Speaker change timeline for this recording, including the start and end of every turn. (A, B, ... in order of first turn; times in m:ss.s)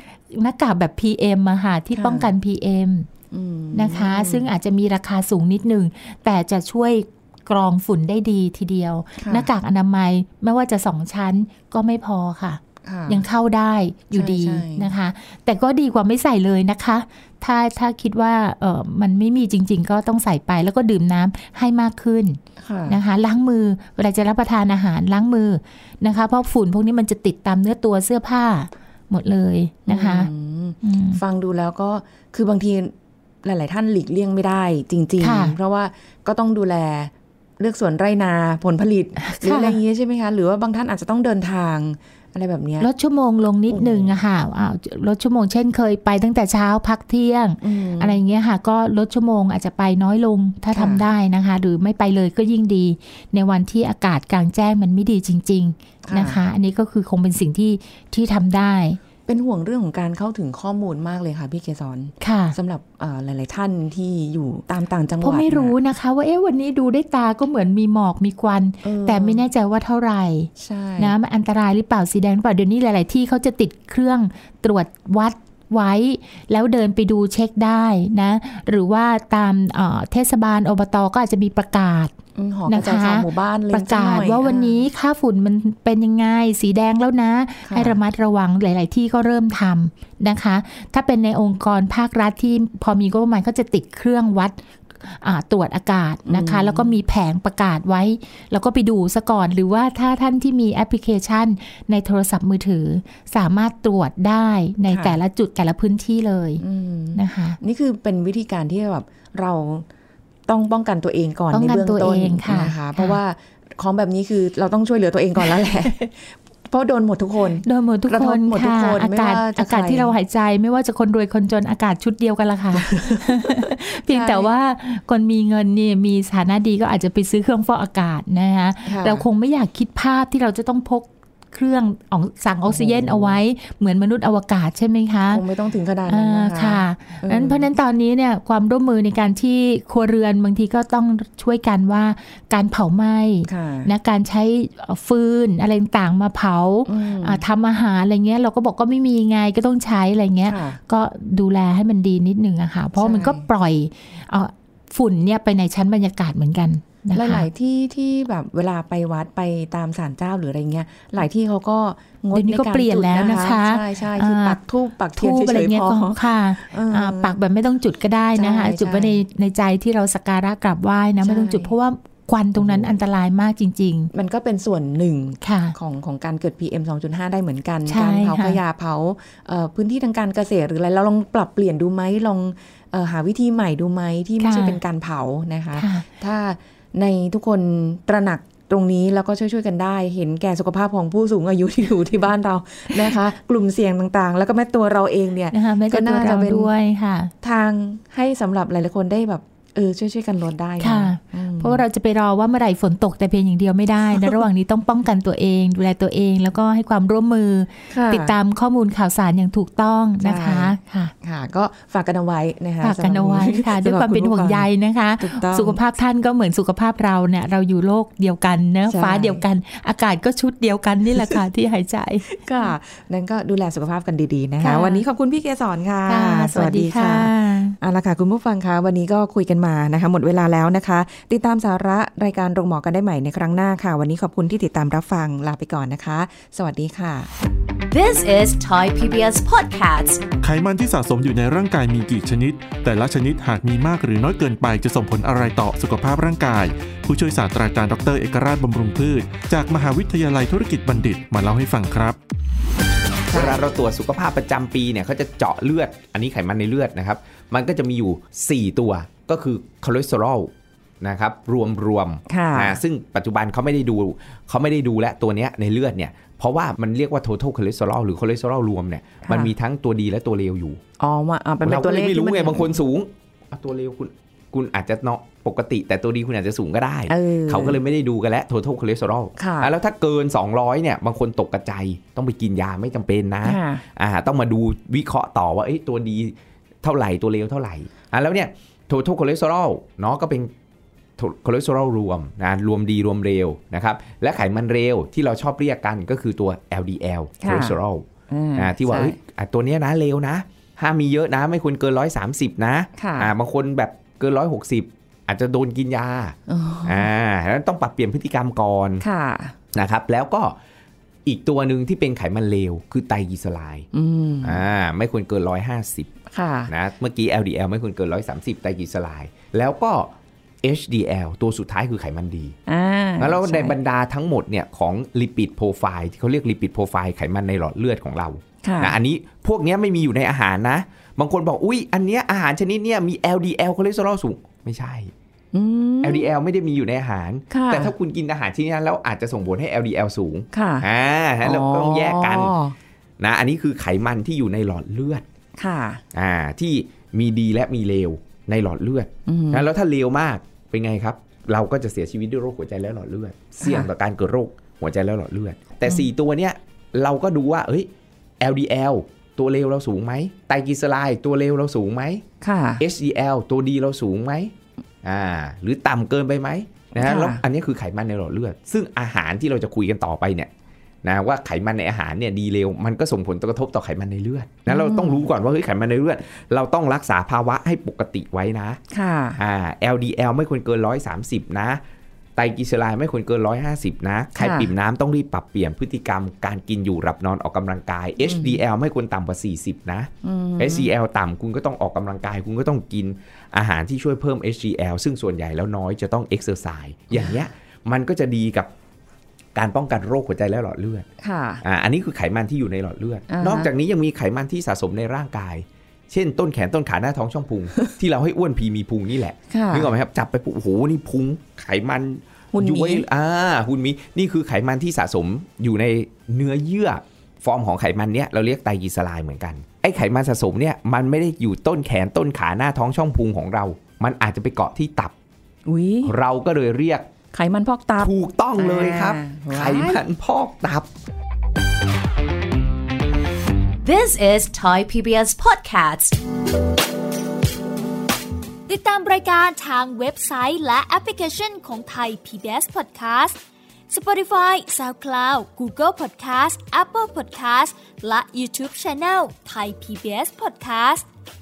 0:00.3-0:03.1 A
0:01.9-0:02.3 B
0:03.3-0:04.5 B
0:03.7-0:30.3 A
0:09.2-0:09.5 B
0:12.8-0:13.3 B
0:14.1-0:14.9 B
0:22.6-0:23.0 B
0:29.9-0:42.9 B
0:30.8-0:31.2 A
0:35.2-0:35.6 A
0:39.2-0:39.8 A
0:42.8-0:59.0 A
0:43.7-0:44.1 B
0:47.6-0:48.2 B
0:50.7-0:51.0 B
0:56.1-0:56.4 B
0:59.3-1:05.8 B
1:02.2-1:02.6 A
1:05.2-1:22.2 A
1:08.8-1:09.4 B
1:10.6-1:11.2 B
1:22.4-1:24.8 B
1:22.7-1:46.6 A
1:27.6-1:28.0 B
1:36.3-1:36.9 B
1:44.9-1:45.2 B
1:46.6-1:49.9 B
1:47.2-1:47.6 A
1:50.5-2:00.1 B
1:51.5-1:53.2 A
1:57.6-2:15.4 A
2:02.8-2:04.5 B
2:08.9-2:09.3 B
2:12.7-2:13.4 B
2:15.3-2:17.7 B
2:16.1-2:37.5 A
2:23.5-2:23.9 B
2:26.9-2:27.4 B
2:30.5-2:30.8 B
2:33.0-2:33.4 B
2:37.1-2:47.4 B
2:42.3-2:44.6 A
2:45.2-2:54.1 A
2:48.4-2:49.2 B
2:51.2-2:51.7 B
2:52.6-2:53.0 B
2:54.1-3:16.7 B
2:55.4-2:55.8 A
2:57.9-2:58.6 A
3:04.4-3:04.8 A
3:05.8-3:06.1 A
3:15.5-3:17.3 A
3:17.4-3:21.8 B
3:20.8-3:31.1 A
3:27.9-3:28.3 B
3:30.2-3:34.7 B
3:32.8-3:42.3 A
3:35.2-3:35.8 B
3:38.9-3:39.4 B
3:42.4-3:57.3 B
3:44.6-3:45.0 A
3:46.1-3:47.8 A
3:57.9-4:00.2 C
4:00.4-4:12.2 D
4:13.3-4:13.6 B
4:13.3-4:30.8 E
4:22.3-4:22.8 B
4:29.2-4:29.5 B
4:31.0-4:32.8 B
4:31.6-4:50.5 E
4:37.1-4:37.8 B
4:39.4-4:39.7 B
4:43.4-4:43.8 B
4:51.2-5:09.0 E
4:57.4-4:57.8 B
4:58.3-4:59.2 B
5:03.0-5:03.3 B
5:06.5-5:07.1 B
5:09.0-5:09.6 B
5:09.7-5:10.6 E
5:11.3-5:13.9 E
5:13.9-5:14.6 B
5:14.4-5:16.1 E
5:16.3-5:16.7 B
5:16.7-5:22.6 E
5:22.7-5:23.8 B
5:23.2-5:35.1 E
5:28.6-5:29.0 B
5:35.5-5:36.3 B
5:36.0-5:42.6 E
5:37.5-5:37.9 B
5:40.5-5:40.9 B
5:41.4-5:42.8 B
5:43.2-5:45.2 E
5:45.6-5:46.0 B
5:46.1-5:57.9 E
5:49.3-5:49.7 B
5:53.6-5:53.9 B
5:58.4-6:02.2 E
6:02.4-6:02.8 B
6:02.8-6:10.5 E
6:07.0-6:07.4 B
6:11.0-6:18.8 E
6:14.7-6:15.3 B
6:18.9-6:19.4 B
6:19.4-6:21.8 E
6:22.4-6:38.7 E
6:24.4-6:24.7 B
6:28.2-6:28.6 B
6:30.2-6:30.9 B
6:37.1-6:37.4 B
6:39.6-6:41.1 E
6:41.2-6:41.6 B
6:41.6-7:05.1 E
6:43.3-6:43.7 B
6:49.5-6:49.9 B
6:52.5-6:53.1 B
7:05.7-7:06.1 B
7:06.0-7:07.1 E
7:07.3-7:10.0 B
7:08.0-7:10.9 E
7:13.8-7:16.2 C
7:18.7-7:23.4 F
7:23.9-7:31.0 F